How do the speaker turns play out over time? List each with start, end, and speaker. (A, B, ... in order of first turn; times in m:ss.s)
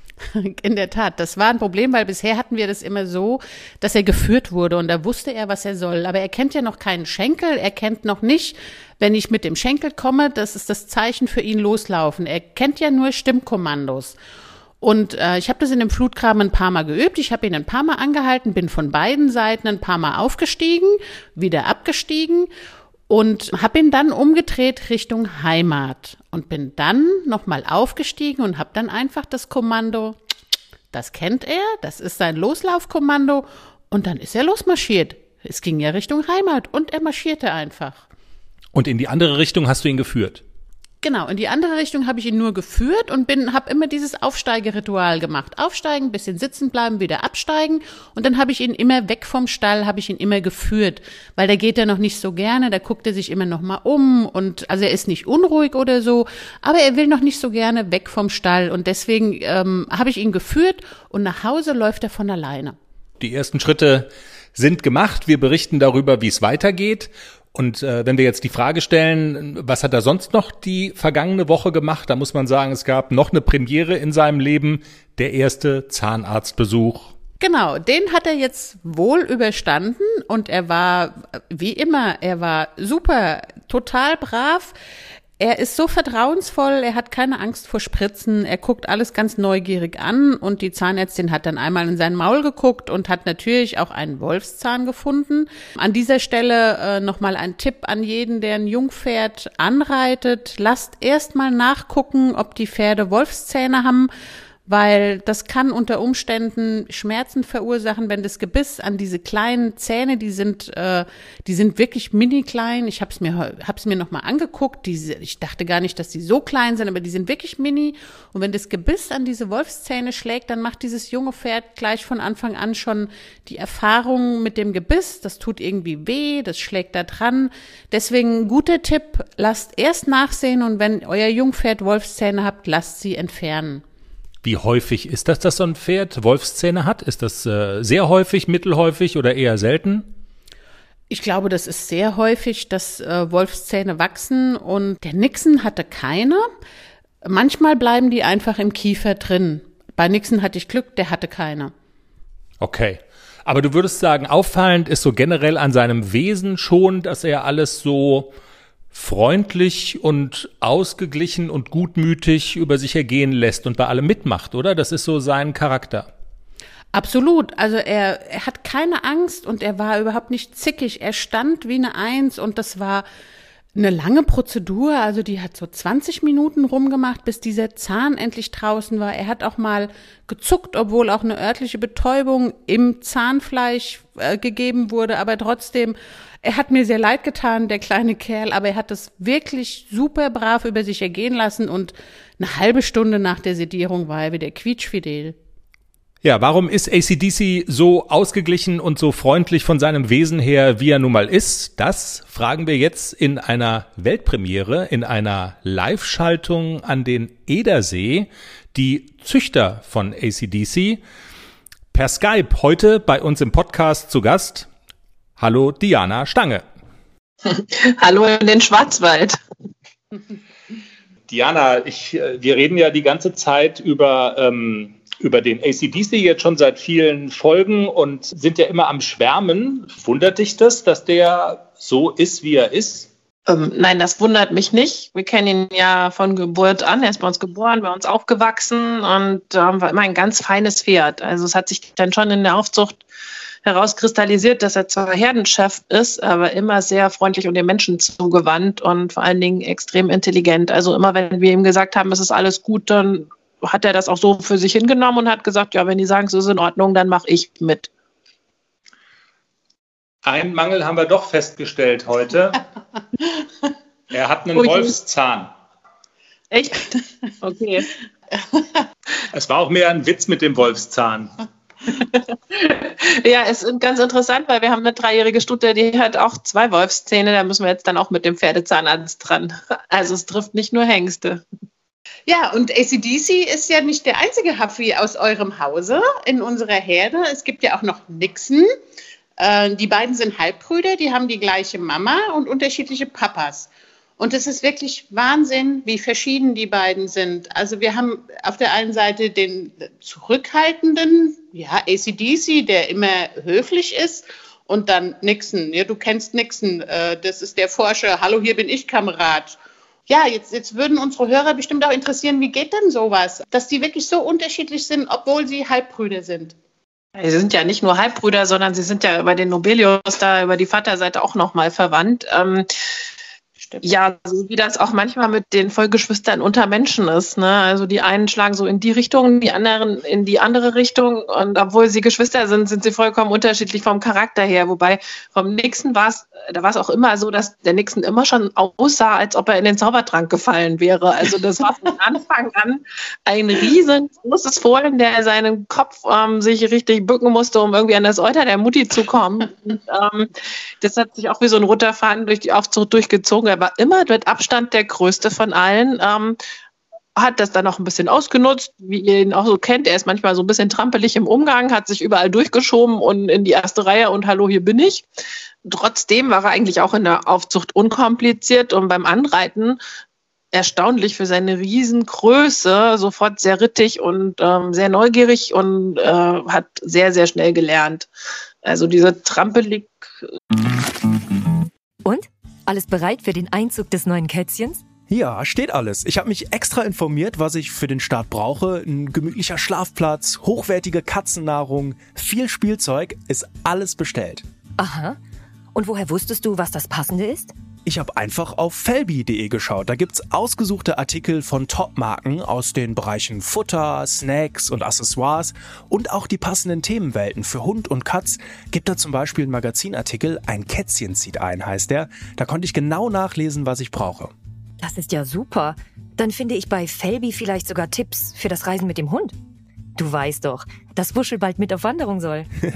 0:00.2-0:14.2 A
0:14.8-0:22.5 A
0:23.1-0:30.2 A
0:30.9-0:38.0 A
0:38.7-0:40.4 B
0:41.0-1:02.8 A
1:03.2-1:17.1 B
1:17.4-1:24.7 A
1:25.4-1:44.1 A
1:44.7-2:13.8 A
2:14.4-2:20.1 B
2:21.1-2:26.5 A
2:27.2-2:31.7 A
2:32.6-2:38.3 B
2:38.9-2:46.1 B
2:46.9-2:53.0 A
2:53.8-3:15.4 A
3:16.2-3:31.0 B
3:31.9-3:34.7 B
3:35.4-3:36.6 B
3:37.5-3:39.4 C
3:41.3-3:53.1 B
3:53.5-4:03.0 C
4:03.6-4:17.9 C
4:20.2-4:22.6 B
4:24.1-4:25.5 B
4:24.6-4:24.9 C
4:26.5-4:27.9 C
4:29.3-4:31.3 B
4:31.9-4:41.4 C
4:42.3-4:48.7 A
4:49.4-5:16.6 A
5:17.2-5:22.7 C
5:23.8-5:56.4 C
5:57.2-6:05.0 C
6:05.6-6:09.8 C
6:10.5-6:18.1 C
6:18.6-6:20.0 C
6:22.0-6:24.8 D
6:25.1-6:34.4 E
6:34.8-6:35.2 D
6:35.7-6:37.5 D
6:37.8-6:54.3 E
6:54.8-6:59.3 D
7:00.0-7:02.5 D